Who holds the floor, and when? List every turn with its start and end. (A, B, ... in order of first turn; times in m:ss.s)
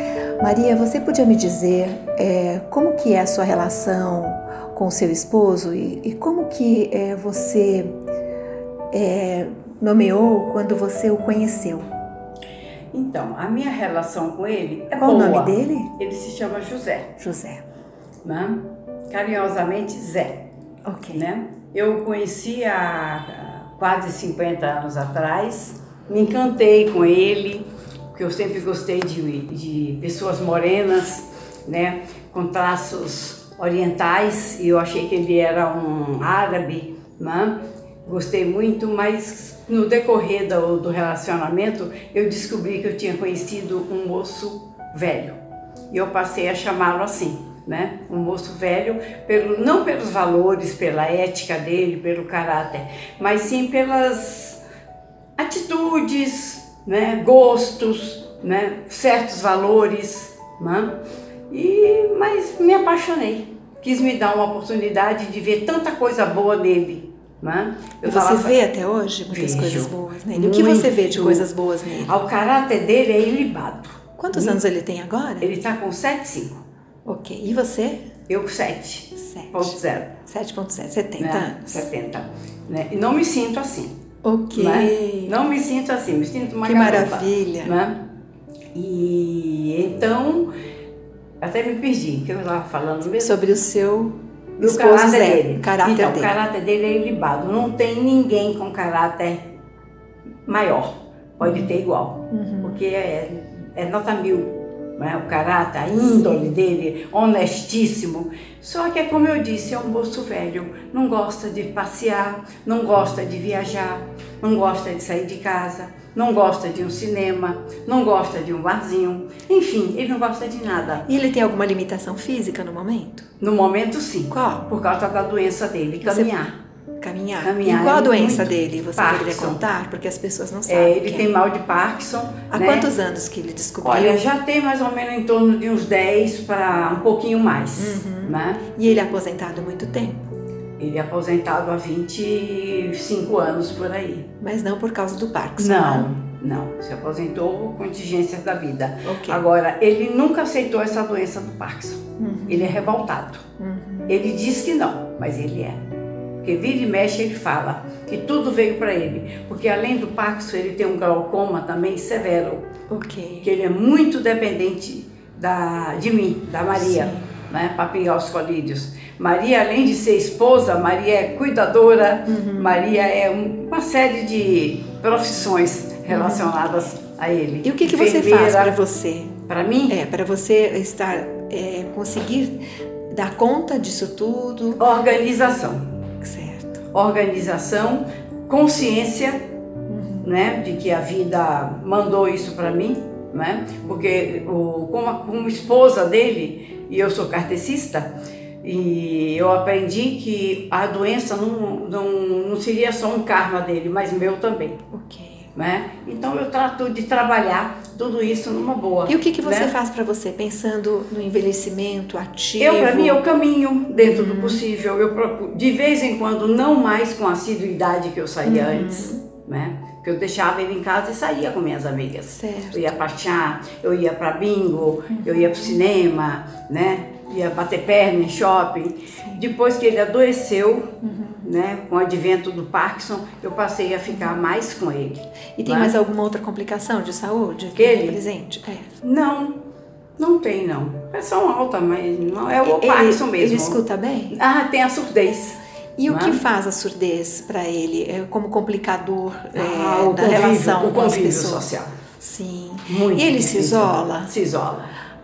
0:00.4-0:07.9 A
0:08.9-0:11.9 A
0:12.9-0:17.2 B
0:14.9-0:15.9 A
0:17.2-0:17.6 A
0:18.2-0:20.5 B
0:20.8-0:21.2 A
0:21.1-0:45.4 B
0:45.9-0:54.6 B
0:55.4-1:01.0 B
1:01.5-1:08.6 B
1:08.0-1:12.1 A
1:09.3-1:11.5 B
1:12.0-1:14.6 B
1:14.2-1:15.5 A
1:15.4-1:16.6 B
1:17.1-1:18.0 A
1:18.3-1:20.2 B
1:19.2-1:21.8 A
1:21.2-1:23.9 B
1:24.2-1:25.4 A
1:24.5-1:28.0 B
1:26.6-1:27.7 A
1:28.7-1:30.5 B
1:31.4-1:33.4 B
1:33.2-1:36.3 A
1:34.6-1:39.5 B
1:40.5-2:01.1 B
1:41.4-1:41.7 A
1:42.3-1:42.8 A
2:01.1-2:03.3 A
2:03.4-2:06.6 B
2:04.3-2:04.7 A
2:06.0-2:06.4 A
2:07.0-2:11.3 A
2:07.4-2:09.6 B
2:10.7-2:12.9 B
2:12.5-2:14.3 A
2:13.8-2:18.6 B
2:17.8-2:20.3 A
2:20.8-2:24.3 B
2:24.4-2:26.1 A
2:25.6-2:33.4 B
2:29.1-2:29.4 A
2:32.2-2:32.8 A
2:33.6-2:34.2 A
2:34.1-2:35.8 B
2:36.4-2:42.7 B
2:42.9-2:43.5 A
2:43.4-2:58.8 B
2:46.8-2:47.3 A
2:52.3-2:52.8 A
2:56.1-2:56.7 A
2:57.6-2:59.3 A
2:59.5-3:00.0 B
2:59.9-3:04.8 A
3:04.8-3:05.8 B
3:06.2-3:06.8 A
3:06.9-3:09.4 B
3:09.9-3:10.3 A
3:10.2-3:24.8 B
3:24.9-3:25.5 A
3:25.6-3:29.7 B
3:29.1-3:33.2 A
3:32.6-3:55.9 B
3:33.9-3:34.6 A
3:38.4-3:39.2 A
3:42.3-3:42.9 A
3:45.1-3:45.8 A
3:51.0-3:51.5 A
3:55.6-3:58.9 A
3:57.8-3:58.2 B
3:59.0-3:59.6 B
4:00.2-4:03.8 B
4:02.6-4:04.4 A
4:04.3-4:06.4 B
4:06.0-4:14.3 A
4:09.5-4:11.9 B
4:12.9-4:14.9 B